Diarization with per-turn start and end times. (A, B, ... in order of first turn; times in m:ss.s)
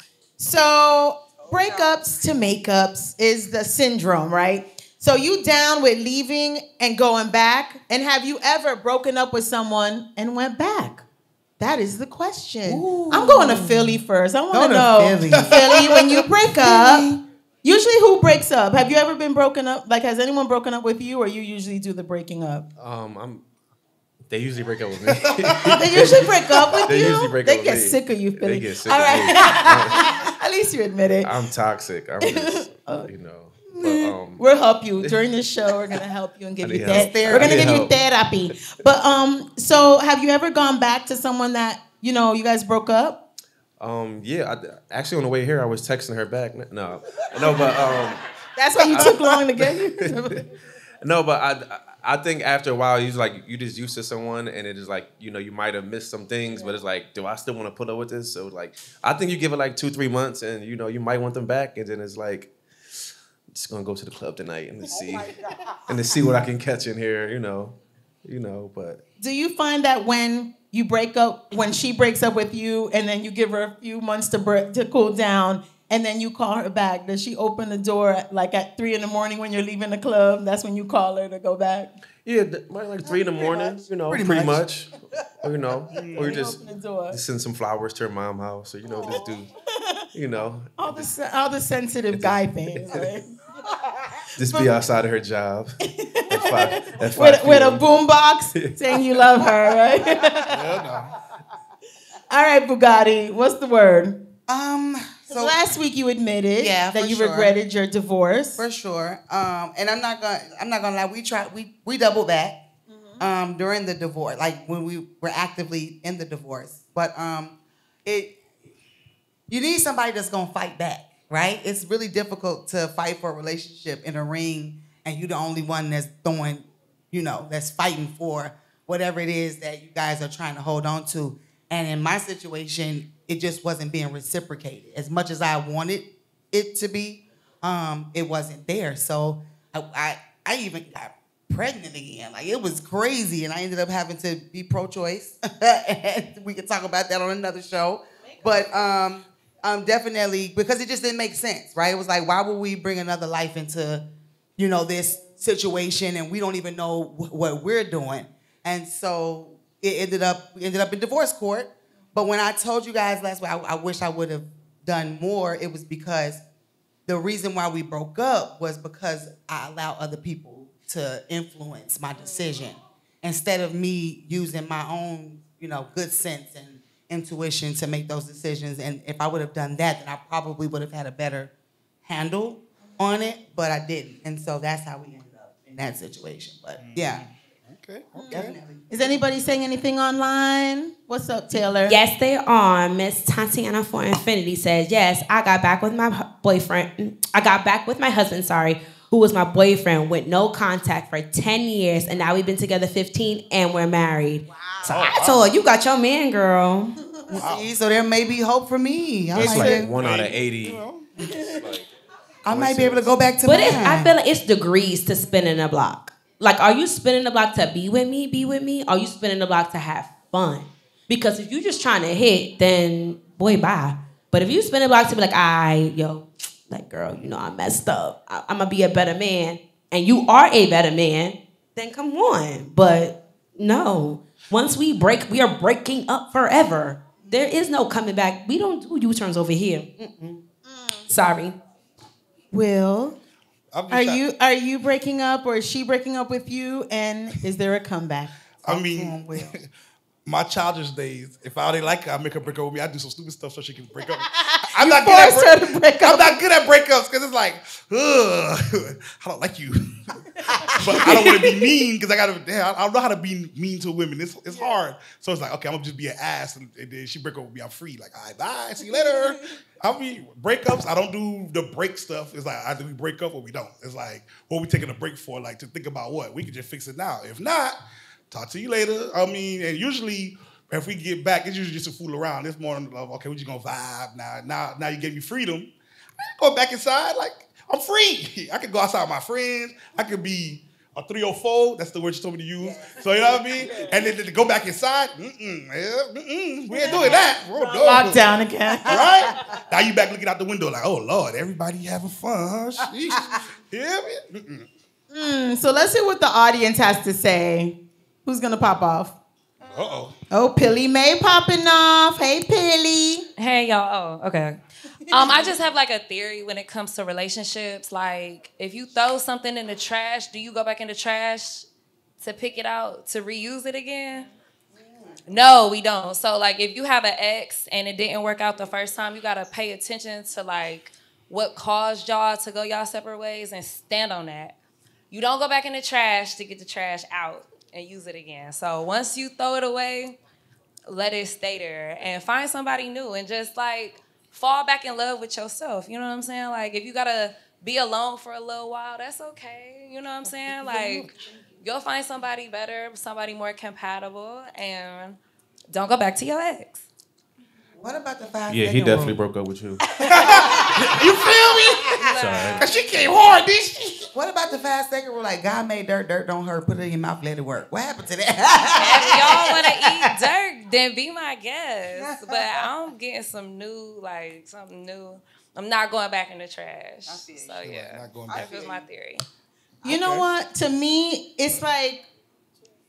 0:00.4-0:11.0 A
0:01.5-0:02.0 B
0:11.6-0:22.7 A
0:12.6-0:14.0 B
0:14.5-0:16.0 B
0:16.6-0:17.2 B
0:22.8-0:23.4 C
0:24.3-0:26.3 C
0:25.3-0:25.7 D
0:25.7-0:31.3 A
0:26.8-0:30.2 C
0:31.2-0:34.4 C
0:32.2-0:33.1 A
0:33.8-0:34.1 B
0:34.4-0:43.2 A
0:36.6-0:38.0 C
0:36.9-0:37.8 B
0:43.8-0:48.2 C
0:48.6-0:50.4 A
0:48.9-0:49.7 C
0:51.0-1:02.5 C
1:03.6-1:05.3 C
1:04.9-1:05.3 B
1:05.9-1:09.0 C
1:09.2-1:21.9 A
1:22.2-1:24.9 C
1:23.2-1:24.6 B
1:25.4-1:26.6 C
1:25.9-1:26.4 D
1:26.2-1:27.2 A
1:27.1-1:29.5 C
1:29.7-1:30.0 A
1:30.1-1:31.1 C
1:30.8-1:33.4 A
1:32.1-1:33.1 C
1:34.4-1:35.8 C
1:35.9-1:40.5 A
1:36.3-1:37.9 C
1:40.5-1:41.1 D
1:42.3-1:44.2 A
1:44.5-1:45.6 B
1:45.3-1:48.6 A
1:46.6-1:47.6 B
1:48.6-1:52.6 B
1:52.9-1:53.2 A
1:53.2-1:58.4 B
1:59.5-2:34.1 B
2:34.6-2:46.4 B
2:47.1-3:01.5 B
3:02.0-3:07.2 B
3:06.8-3:08.6 D
3:08.1-3:12.0 A
3:08.3-3:09.2 B
3:11.9-3:27.0 E
3:24.8-3:25.5 D
3:27.3-3:29.9 B
3:27.3-3:27.7 D
3:29.4-3:30.8 C
3:29.4-3:29.8 A
3:29.6-3:31.3 D
3:31.6-3:31.9 C
3:32.4-3:34.1 B
3:32.5-3:33.2 C
3:33.4-4:00.4 E
4:00.0-4:00.3 B
4:00.7-4:01.1 A
4:01.1-4:01.6 E
4:02.5-4:03.2 A
4:03.7-4:04.2 D
4:03.9-4:08.3 A
4:08.6-4:09.7 D
4:08.7-4:09.5 B
4:10.2-4:19.8 D
4:14.5-4:16.4 A
4:20.5-4:21.1 A
4:20.6-4:37.8 D
4:20.9-4:21.3 B
4:38.3-4:45.7 D
4:46.2-5:04.7 D
4:52.9-4:53.9 B
4:57.6-4:59.1 A
5:05.1-5:09.2 A
5:09.7-5:10.1 D
5:10.3-5:13.3 A
5:13.4-5:14.6 F
5:15.1-5:15.5 A
5:15.1-5:21.7 F
5:22.2-5:24.3 F
5:24.8-5:25.1 B
5:25.3-5:34.6 F
5:35.1-5:40.2 F
5:40.9-5:55.2 F
5:55.7-5:56.8 F
5:57.8-5:59.2 B
5:58.5-5:59.8 C
6:00.0-6:04.1 D
6:01.9-6:03.1 F
6:02.0-6:02.6 C
6:04.1-6:10.1 B
6:08.8-6:19.2 F
6:12.0-6:12.5 B
6:17.1-6:17.6 B
6:17.6-6:18.7 D
6:18.3-6:18.8 B
6:19.8-6:22.0 A
6:19.9-6:20.2 D